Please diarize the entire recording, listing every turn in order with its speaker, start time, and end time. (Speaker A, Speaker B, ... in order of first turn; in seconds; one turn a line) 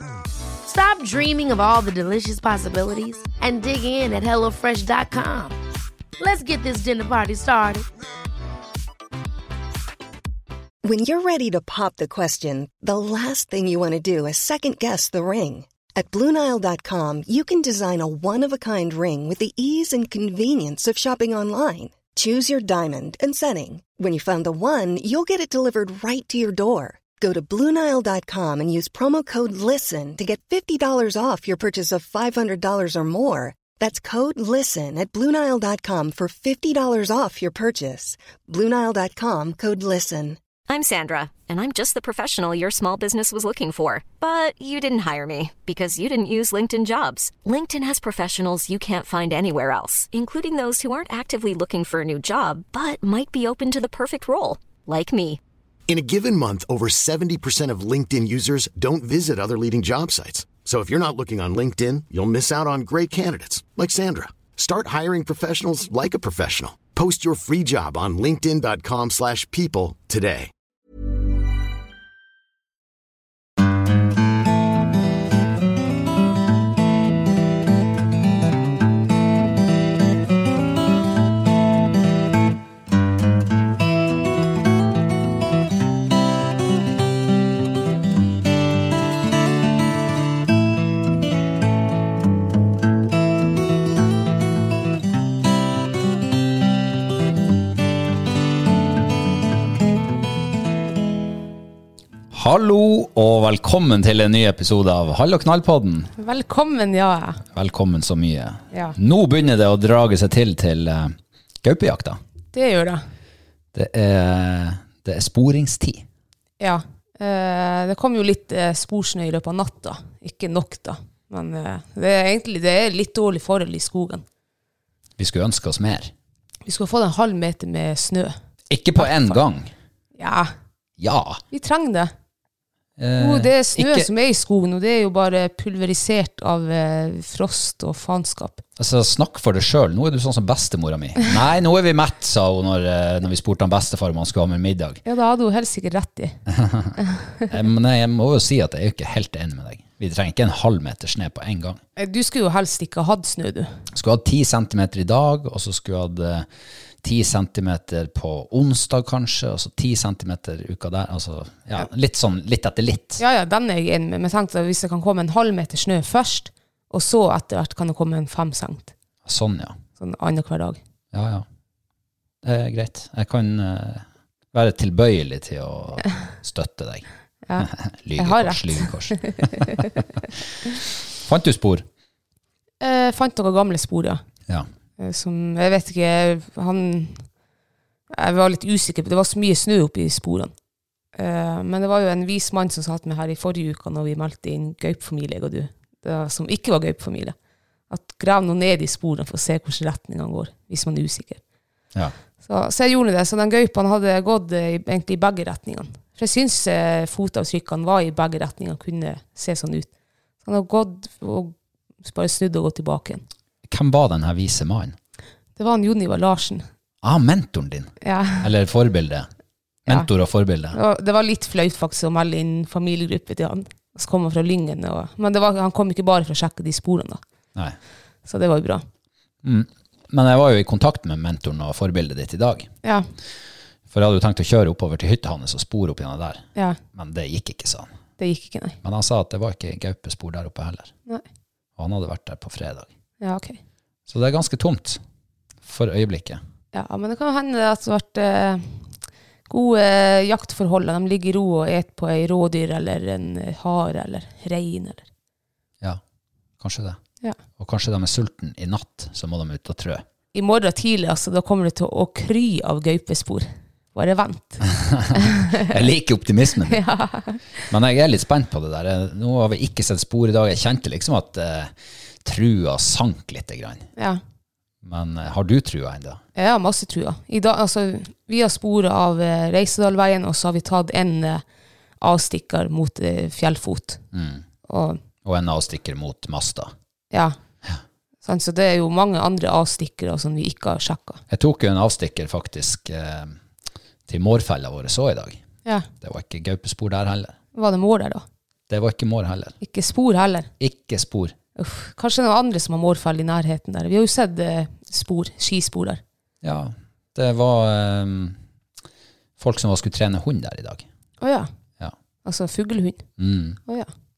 Speaker A: 0.6-5.5
Speaker A: 6.2-7.9
Speaker B: 10.8-40.4
Speaker C: 40.7-55.4
Speaker D: 55.9-70.5
Speaker E: 102.3-106.1
Speaker F: 106.2-107.4
Speaker E: 107.5-112.2
Speaker F: 112.5-113.0
Speaker E: 113.7-116.0
Speaker F: 116.6-124.2
Speaker E: 125.2-126.1
Speaker F: 126.7-128.3
Speaker E: 128.7-129.7
Speaker F: 129.0-129.4
Speaker F: 130.2-130.5
Speaker E: 131.0-131.4
Speaker F: 131.5-132.1
Speaker E: 133.0-134.1
Speaker F: 133.2-138.6
Speaker E: 138.8-145.0
Speaker F: 145.0-146.4
Speaker E: 146.5-146.9
Speaker E: 147.5-151.8
Speaker F: 152.0-153.7
Speaker E: 153.9-156.5
Speaker E: 157.0-163.2
Speaker F: 163.2-168.9
Speaker E: 169.2-169.8
Speaker F: 170.0-170.8
Speaker E: 171.1-171.4
Speaker E: 172.4-177.1
Speaker F: 177.5-179.8
Speaker E: 177.6-179.9
Speaker E: 181.2-181.8
Speaker F: 182.8-184.2
Speaker F: 185.0-187.3
Speaker F: 188.1-190.5
Speaker F: 191.1-197.3
Speaker F: 197.9-201.4
Speaker F: 202.4-209.9
Speaker F: 210.4-213.2
Speaker E: 213.7-214.9
Speaker F: 215.6-216.6
Speaker E: 217.0-219.3
Speaker F: 218.0-218.5
Speaker E: 219.8-220.8
Speaker F: 220.7-227.2
Speaker F: 228.2-228.8
Speaker E: 229.4-232.7
Speaker E: 233.9-237.9
Speaker F: 238.2-238.8
Speaker E: 238.8-240.9
Speaker E: 241.8-242.9
Speaker F: 243.2-243.6
Speaker E: 244.1-245.0
Speaker E: 245.6-246.4
Speaker F: 246.7-248.8
Speaker F: 249.5-255.1
Speaker E: 256.6-257.0
Speaker E: 257.6-260.0
Speaker F: 260.3-265.6
Speaker E: 264.8-266.8
Speaker F: 266.7-267.4
Speaker E: 267.7-273.9
Speaker E: 274.8-276.2
Speaker F: 276.4-281.4
Speaker F: 282.0-284.0
Speaker E: 284.1-284.4
Speaker F: 284.7-285.0
Speaker E: 285.2-286.7
Speaker F: 288.2-291.2
Speaker E: 291.3-293.4
Speaker E: 294.1-295.4
Speaker E: 296.0-297.4
Speaker F: 297.5-298.2
Speaker E: 298.7-299.6
Speaker F: 299.6-300.5
Speaker E: 300.6-301.3
Speaker F: 301.6-306.0
Speaker E: 306.4-308.4
Speaker E: 309.4-310.9
Speaker F: 311.2-311.5
Speaker F: 312.2-313.1
Speaker E: 313.2-313.6